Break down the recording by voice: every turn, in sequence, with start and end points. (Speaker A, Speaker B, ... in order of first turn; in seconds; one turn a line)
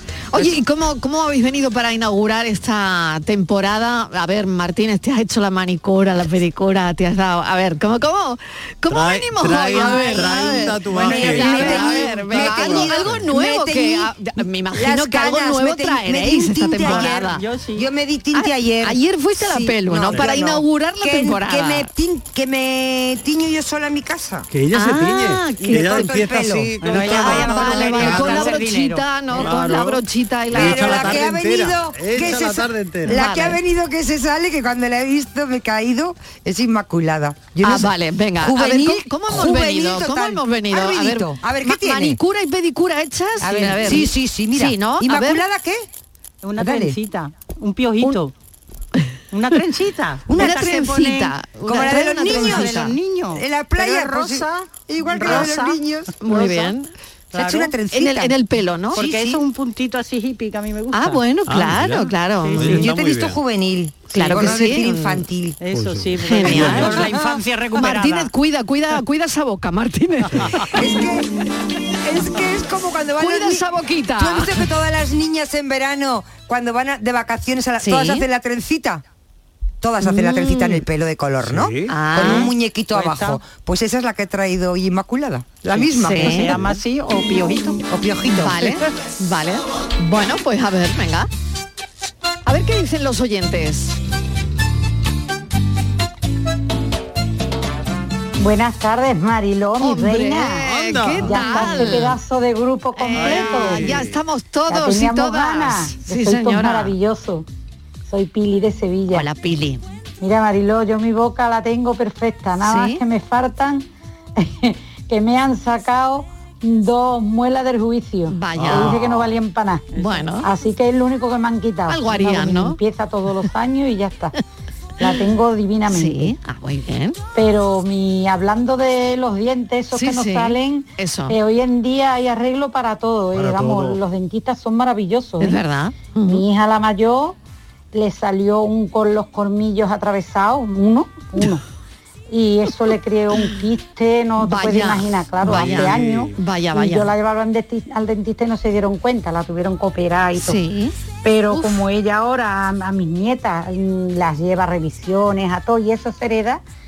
Speaker A: 0.3-17.4
Speaker B: 8.9-13.2
Speaker C: 10.9-14.1
Speaker D: 11.0-11.6
Speaker C: 14.7-24.5
Speaker D: 16.8-17.9
Speaker A: 18.3-21.9
Speaker B: 24.5-28.5
Speaker A: 24.7-26.2
Speaker C: 25.6-28.6
Speaker D: 26.8-29.1
Speaker A: 27.0-31.2
Speaker B: 29.4-33.2
Speaker C: 30.5-42.2
Speaker A: 33.1-33.6
Speaker A: 37.6-45.4
Speaker C: 43.4-45.9
Speaker D: 46.4-48.3
Speaker C: 46.6-47.0
Speaker D: 49.3-56.7
Speaker C: 50.3-50.7
Speaker A: 50.4-53.0
Speaker C: 51.7-52.8
Speaker C: 53.3-56.1
Speaker A: 56.2-56.9
Speaker D: 57.3-57.7
Speaker C: 57.3-58.4
Speaker A: 57.9-59.0
Speaker C: 58.9-59.4
Speaker D: 59.0-61.2
Speaker A: 60.9-62.8
Speaker B: 61.5-63.4
Speaker D: 62.5-62.8
Speaker C: 62.6-65.6
Speaker A: 64.1-65.2
Speaker D: 65.6-68.3
Speaker B: 65.7-67.0
Speaker A: 66.2-67.1
Speaker C: 66.6-67.4
Speaker A: 67.8-70.6
Speaker C: 70.6-71.3
Speaker C: 72.0-79.0
Speaker A: 73.2-74.6
Speaker A: 77.8-78.2
Speaker C: 79.8-86.7
Speaker A: 80.0-80.8
Speaker B: 81.4-81.9
Speaker A: 81.9-82.5
Speaker D: 82.9-83.4
Speaker A: 85.8-86.6
Speaker D: 85.8-87.8
Speaker C: 87.5-88.7
Speaker A: 88.3-91.3
Speaker A: 92.5-94.0
Speaker E: 98.4-100.7
Speaker A: 99.8-102.2
Speaker B: 100.6-101.7
Speaker E: 101.2-104.0
Speaker A: 103.0-106.9
Speaker B: 103.1-104.2
Speaker E: 104.7-107.5
Speaker E: 108.1-109.3
Speaker A: 109.1-109.8
Speaker E: 110.2-119.9
Speaker A: 112.6-113.0
Speaker A: 118.3-119.0
Speaker B: 118.6-119.4
Speaker D: 119.9-120.3
Speaker A: 120.0-120.5
Speaker E: 120.4-124.3
Speaker A: 121.9-122.8
Speaker E: 125.0-126.3
Speaker A: 125.9-127.2
Speaker E: 127.3-135.6
Speaker A: 129.9-131.4
Speaker B: 133.3-134.0
Speaker A: 135.4-136.4
Speaker E: 136.2-137.4
Speaker E: 137.9-141.6
Speaker E: 142.3-150.6
Speaker A: 144.4-147.1
Speaker B: 145.4-146.4
Speaker A: 150.4-150.9
Speaker E: 151.2-156.6
Speaker A: 151.5-151.8